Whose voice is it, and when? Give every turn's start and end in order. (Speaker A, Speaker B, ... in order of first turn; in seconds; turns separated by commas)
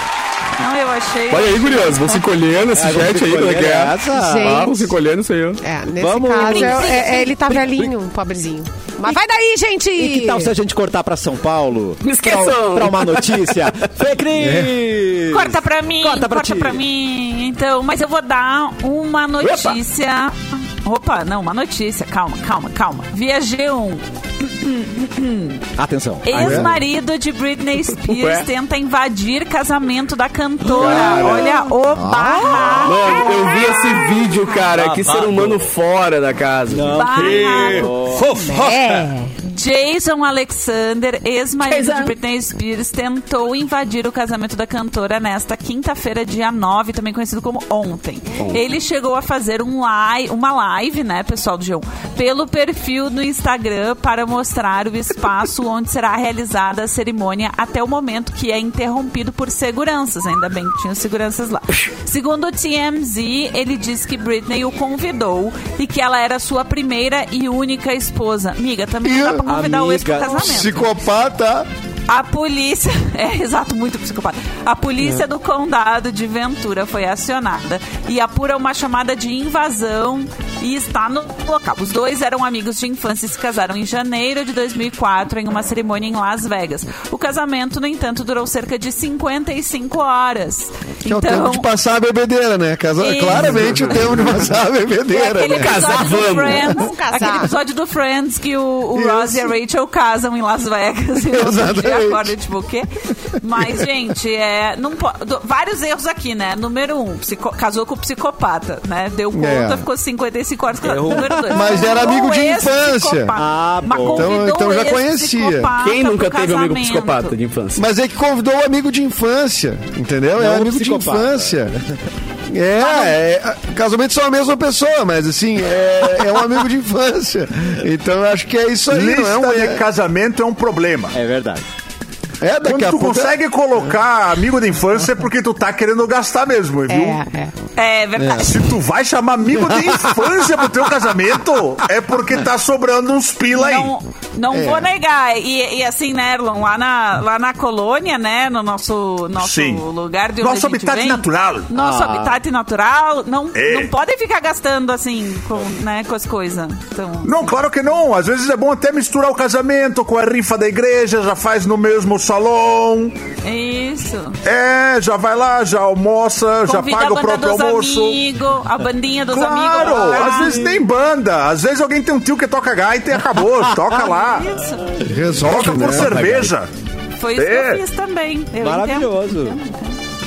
Speaker A: 0.6-2.2, Speaker B: 1.3-5.6, Speaker C: 2.7-4.6, Speaker D: 4.1-4.9, Speaker D: 5.6-10.5, Speaker C: 6.0-7.9, Speaker A: 6.4-7.5, Speaker C: 10.0-16.8, Speaker B: 12.0-13.6, Speaker A: 15.3-25.6, Speaker B: 19.4-19.8, Speaker C: 25.8-26.7, Speaker A: 26.2-34.2, Speaker E: 26.3-26.7, Speaker B: 28.0-28.4, Speaker C: 30.6-31.5, Speaker B: 30.8-31.5, Speaker E: 31.9-32.3, Speaker D: 32.2-33.9, Speaker B: 32.8-37.0, Speaker C: 34.6-35.7, Speaker C: 36.7-38.3, Speaker A: 36.9-37.9, Speaker F: 37.1-39.0, Speaker D: 38.3-39.3, Speaker A: 39.5-70.9, Speaker B: 41.6-42.1, Speaker E: 69.0-69.5, Speaker C: 69.5-70.7, Speaker E: 70.3-71.7, Speaker A: 72.1-91.7, Speaker E: 91.0-95.8, Speaker A: 93.0-94.4, Speaker A: 95.1-117.3, Speaker B: 95.5-96.8, Speaker D: 96.7-97.5, Speaker E: 98.9-99.5, Speaker E: 101.2-102.3, Speaker E: 109.3-109.8, Speaker C: 110.8-111.8, Speaker E: 111.5-113.3, Speaker C: 113.3-114.4, Speaker E: 114.1-115.7, Speaker B: 115.8-117.8, Speaker E: 117.8-121.7, Speaker C: 120.3-121.8, Speaker E: 122.5-129.8, Speaker A: 122.8-123.2, Speaker F: 128.9-131.1, Speaker C: 131.1-131.6, Speaker E: 132.4-133.3, Speaker F: 132.6-137.2, Speaker D: 136.9-137.5, Speaker A: 137.8-138.7, Speaker E: 138.2-138.5, Speaker F: 138.4-143.9, Speaker E: 139.5-140.2, Speaker A: 143.5-157.5, Speaker E: 144.5-144.9, Speaker F: 149.4-149.8, Speaker F: 150.4-151.7, Speaker C: 151.7-152.4, Speaker F: 153.5-153.9, Speaker F: 157.2-163.2, Speaker A: 163.4-164.4, Speaker F: 164.4-168.2, Speaker A: 166.7-170.6, Speaker F: 169.3-174.5, Speaker C: 169.9-170.8, Speaker A: 173.9-175.1, Speaker E: 175.0-176.3, Speaker F: 175.4-176.7, Speaker C: 175.8-176.5, Speaker A: 177.2-179.9, Speaker F: 177.3-177.8, Speaker C: 178.6-179.6